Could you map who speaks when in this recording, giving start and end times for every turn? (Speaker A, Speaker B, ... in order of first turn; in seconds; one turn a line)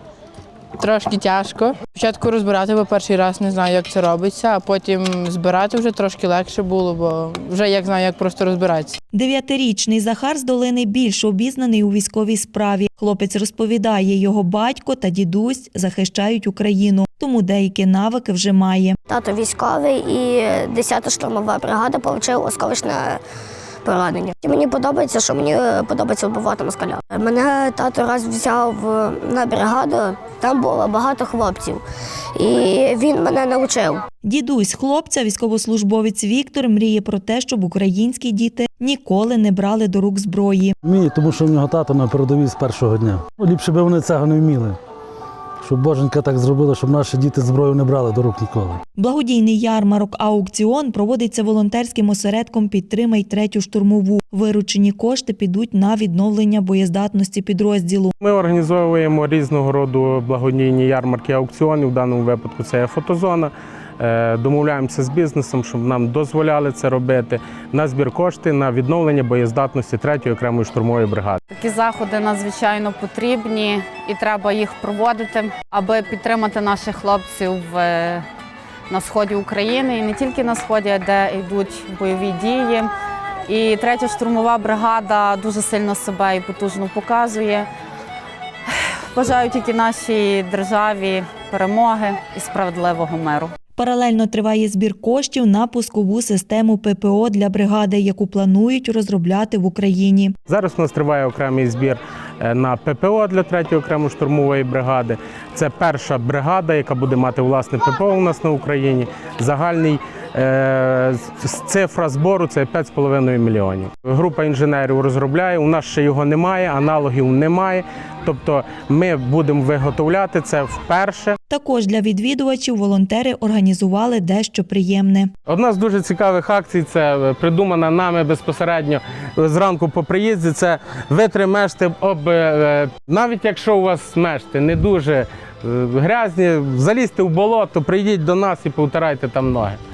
Speaker A: 0.8-9.0
Speaker B: 9.1-19.0
Speaker C: 19.1-23.2
Speaker C: 23.8-31.8
Speaker C: 32.4-34.0
Speaker B: 34.2-40.8
Speaker D: 40.8-44.8
Speaker D: 45.6-48.8
Speaker B: 49.0-58.1
Speaker E: 58.2-71.4
Speaker F: 71.5-78.3
Speaker F: 78.9-82.9
Speaker F: 83.5-87.7
Speaker F: 88.7-93.5
Speaker B: 93.8-100.4
Speaker E: 100.5-121.4
Speaker B: 121.5-125.3
Speaker E: 125.5-139.8